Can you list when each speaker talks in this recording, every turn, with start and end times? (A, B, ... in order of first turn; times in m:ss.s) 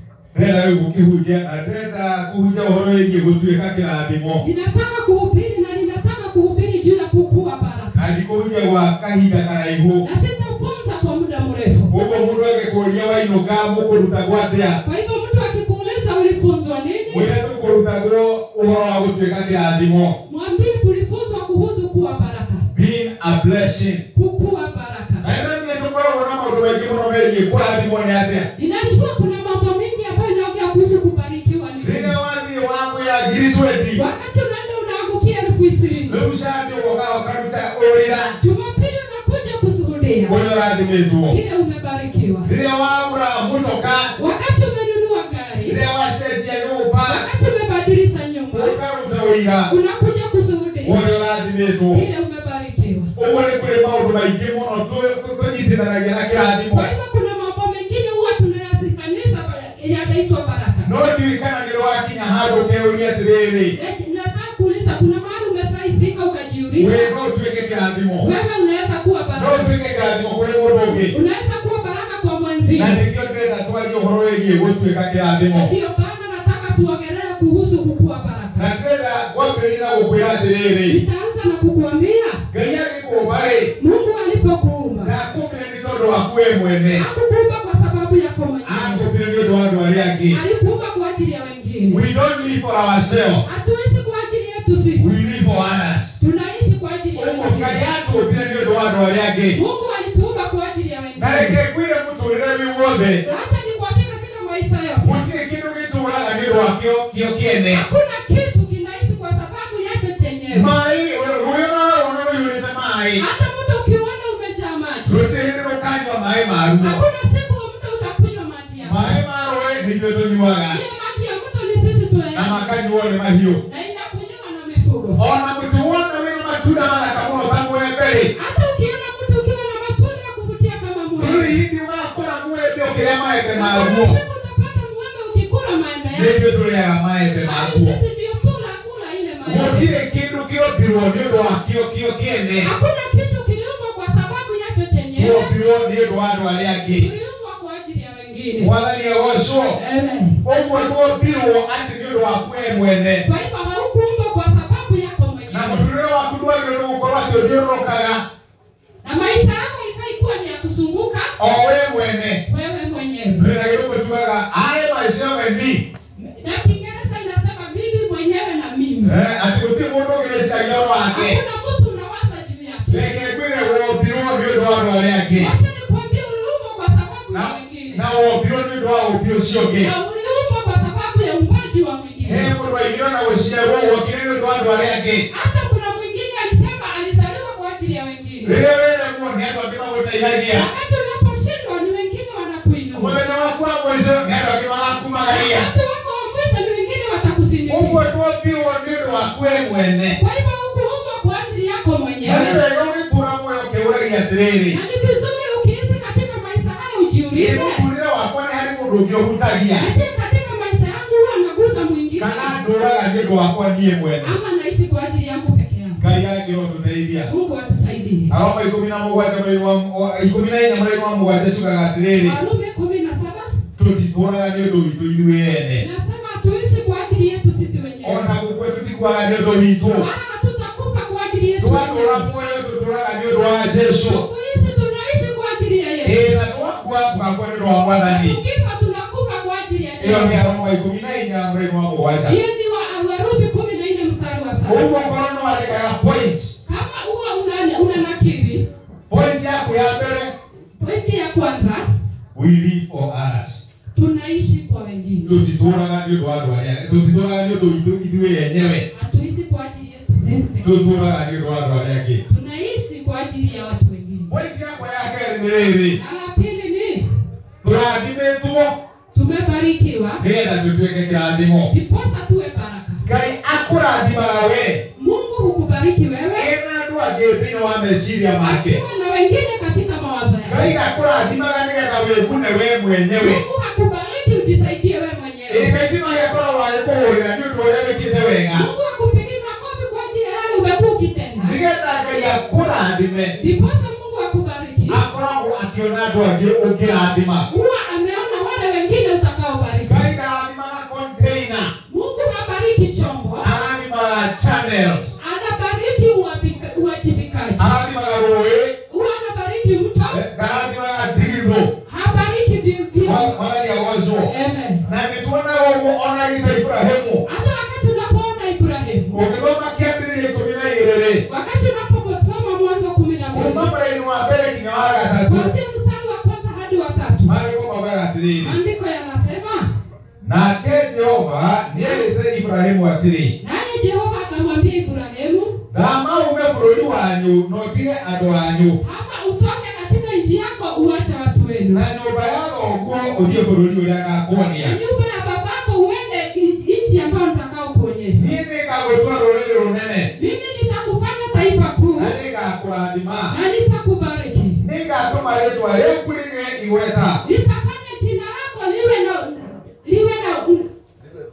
0:00.3-0:04.4 A
0:04.4-0:08.1 B
0:08.0-0:10.0 A
0:10.0-0:11.9 B
0:11.9-0:14.8 A
0:14.8-0:17.3 B
0:17.1-0:20.2 A
0:20.2-0:22.7 B
0:22.7-0:24.0 A
0:24.1-0:25.3 B
0:25.2-0:28.5 A
0:28.5-0:32.2 B
0:31.8-0:34.0 A
0:33.9-0:36.2 B
0:36.1-0:38.4 A
0:38.4-0:40.4 B
0:40.3-0:41.4 A
0:41.3-0:42.5 B
0:42.4-0:44.1 A
0:44.2-0:45.8 B
0:45.6-0:47.2 A
0:47.0-0:48.8 B
0:48.5-0:49.7 A
0:49.7-0:51.0 B
0:50.8-0:52.0 A
0:51.9-0:53.1 B
0:53.2-0:56.9 A
0:56.7-1:00.9 B
1:00.8-1:03.7 A
1:03.7-1:07.1 B
1:06.8-1:08.3 A
1:08.2-1:09.7 B
1:09.4-1:11.1 A
1:10.9-1:13.0 B
1:12.8-1:15.7 A
1:15.5-1:18.7 B
1:18.6-1:21.0 A
1:20.8-1:22.4 B
1:22.5-1:23.7 A
1:23.8-1:25.1 B
1:25.0-1:27.0 A
1:26.9-1:29.1 B
1:28.6-1:30.4 A
1:30.3-1:32.0 B
1:31.9-1:33.5 A
1:33.4-1:35.2 B
1:35.0-1:36.1 A
1:36.2-1:37.8 B
1:37.1-1:39.6 A
1:39.5-1:41.6 B
1:41.2-1:43.2 A
1:43.2-1:45.2 B
1:45.0-1:47.8 A
1:47.7-1:50.7 B
1:50.5-1:53.2 A
1:53.2-1:55.2 B
1:55.1-1:57.0 A
1:56.8-1:59.2 B
1:58.8-2:00.8 A
2:00.7-2:02.7 B
2:02.3-2:03.6 A
2:03.6-2:05.2 B
2:05.2-2:08.3 A
2:08.3-2:11.6 B
2:11.2-2:14.2 A
2:13.5-2:16.4 B
2:16.1-2:18.0 A
2:17.4-2:19.9 B
2:19.4-2:22.7 A
2:22.6-2:25.5 B
2:25.2-2:27.1 A
2:26.9-2:28.7 B
2:28.6-2:29.8 A
2:29.7-2:30.4 B
2:30.4-2:33.2 A
2:33.2-2:35.9 B
2:35.5-2:38.2 A
2:39.0-2:41.4 B
2:41.4-2:42.4 A
2:42.4-2:43.5 B
2:43.4-2:45.8 A
2:46.2-2:49.2 B
2:49.0-2:51.4 A
2:51.1-2:53.2 B
2:52.9-2:55.5 A
2:55.3-2:58.0 B
2:57.3-2:59.9 A
2:59.8-3:02.5 B
3:02.2-3:05.2 A
3:05.3-3:08.6 B
3:08.4-3:10.7 A
3:10.5-3:13.2 B
3:12.9-3:15.7 A
3:15.3-3:18.1 B
3:17.7-3:20.2 A
3:20.1-3:22.6 B
3:22.2-3:24.8 A
3:24.7-3:27.8 B
3:27.4-3:29.9 A
3:29.8-3:32.5 B
3:32.2-3:34.4 A
3:34.2-3:36.1 B
3:36.0-3:37.3 A
3:37.2-3:38.3 B
3:38.3-3:42.4 A
3:42.1-3:43.5 B
3:43.8-3:45.8 A
3:45.8-3:48.3 B
3:48.0-3:50.1 A
3:49.9-3:52.3 B
3:51.6-3:54.2 A
3:54.0-3:56.4 B
3:56.0-3:58.4 A
3:58.0-4:00.4 B
4:00.0-4:02.4 A
4:02.2-4:04.8 B
4:04.6-4:06.5 A
4:06.6-4:08.6 B
4:09.1-4:10.3 A
4:10.8-4:11.8 B
4:12.3-4:13.6 A
4:13.9-4:15.4 B
4:15.2-4:18.8 A
4:18.9-4:20.9 B
4:20.6-4:22.2 A
4:22.3-4:24.3 B
4:24.3-4:26.0 A
4:25.9-4:27.0 B
4:27.6-4:28.8 A
4:29.1-4:30.2 B
4:30.2-4:31.7 A
4:31.7-4:33.1 B
4:33.0-4:34.8 A
4:35.0-4:36.5 B
4:36.3-4:38.8 A
4:38.4-4:40.7 B
4:40.4-4:43.4 A
4:43.2-4:45.7 B
4:45.5-4:48.7 A
4:48.5-4:51.5 B
4:51.4-4:53.3 A
4:53.3-4:55.0 B
4:54.9-4:57.5 A
4:57.5-5:00.1 B
4:59.8-5:01.7 A
5:01.9-5:03.5 B
5:03.4-5:05.2 A
5:05.2-5:07.7 B
5:07.6-5:08.7 A
5:08.9-5:10.2 B
5:10.1-5:11.7 A
5:11.8-5:13.3 B
5:13.0-5:14.3 A
5:14.3-5:14.8 B
5:14.8-5:17.2 A
5:17.2-5:19.2 B
5:19.1-5:21.2 A
5:21.2-5:23.7 B
5:23.3-5:25.5 A
5:25.2-5:27.3 B
5:27.2-5:28.6 A
5:28.4-5:29.7 B
5:30.2-5:33.3 A
5:31.8-5:32.1 B
5:33.4-5:35.6 B
5:35.7-5:38.8 A
5:38.8-5:41.8 B
5:41.7-5:44.8 A
5:44.6-5:48.3 B
5:48.2-5:50.1 A
5:50.1-5:52.1 B
5:52.0-5:53.4 A
5:53.3-5:54.6 B
5:54.6-5:57.2 A
5:57.2-6:00.7 B